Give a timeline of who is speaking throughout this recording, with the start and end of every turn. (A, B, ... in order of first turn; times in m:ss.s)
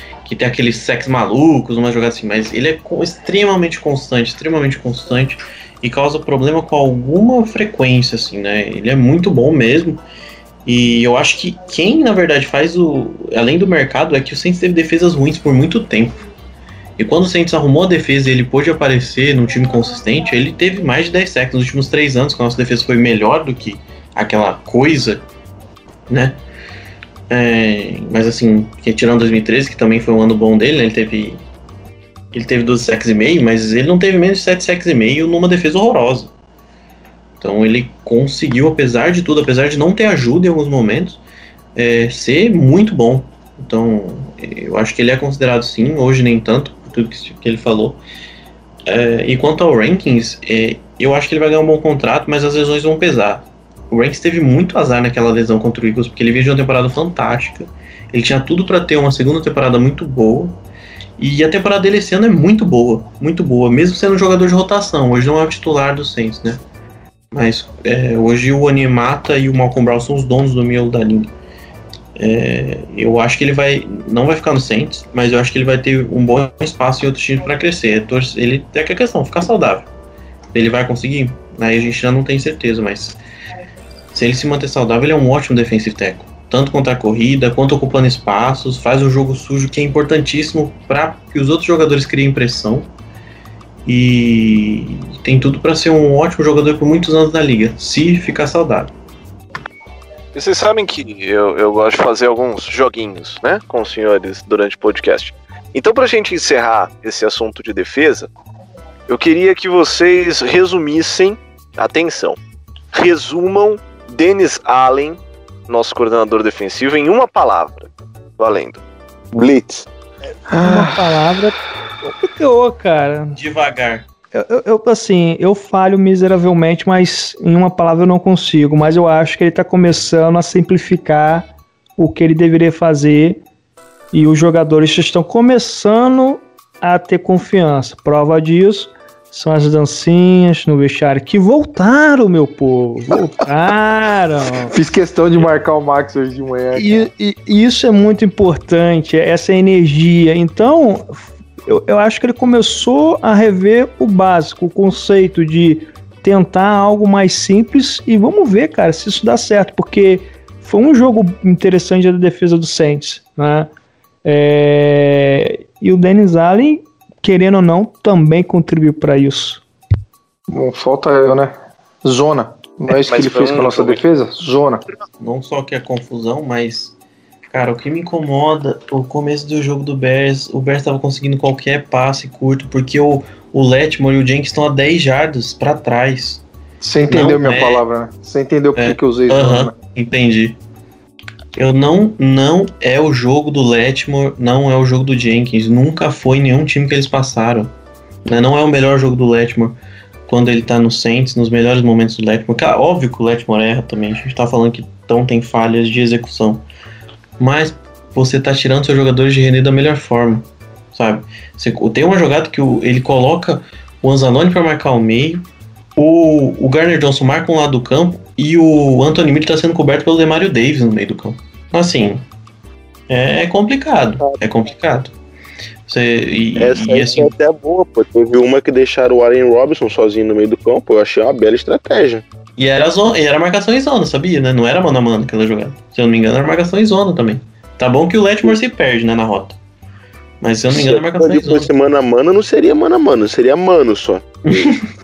0:00.2-0:10.0 A
0:10.6-0:16.2 A
0:17.0-0:25.2 A
0:26.1-0:26.4 A
0:27.3-0:31.4 A
0:32.3-0:36.3 A
0:37.4-0:41.2 A
0:41.7-0:48.0 A
0:48.8-1:00.6 A
1:01.2-1:06.6 A
1:07.3-1:11.3 A
1:12.2-1:19.9 A
1:20.5-1:23.2 A
1:24.1-1:32.9 A
1:33.8-1:38.9 A
1:40.3-1:48.3 B
1:49.1-1:52.4 B
1:52.9-1:58.8 B
1:59.3-1:59.8 C
2:00.5-2:01.0 D
2:00.6-2:03.4 E
2:03.4-2:04.0 A
2:04.3-2:11.5 E
2:12.0-2:13.4 E
2:14.1-2:24.7 E
2:24.7-2:27.1 D
2:26.7-2:43.7 E
2:44.2-2:49.6 E
2:50.5-2:54.8 D
2:52.9-2:54.0 B
2:55.2-2:56.9 A
2:57.5-3:06.4 A
3:06.8-3:09.8 D
3:07.1-3:07.8 A
3:08.8-3:10.6 A
3:11.6-3:17.7 A
3:18.2-3:26.6 A
3:27.4-3:42.2 A
3:43.1-3:45.1 A
3:45.9-3:47.3 A
3:46.6-3:52.2 C
3:52.6-3:59.6 A
4:00.4-4:01.7 A
4:00.7-4:04.7 C
4:04.5-4:04.8 A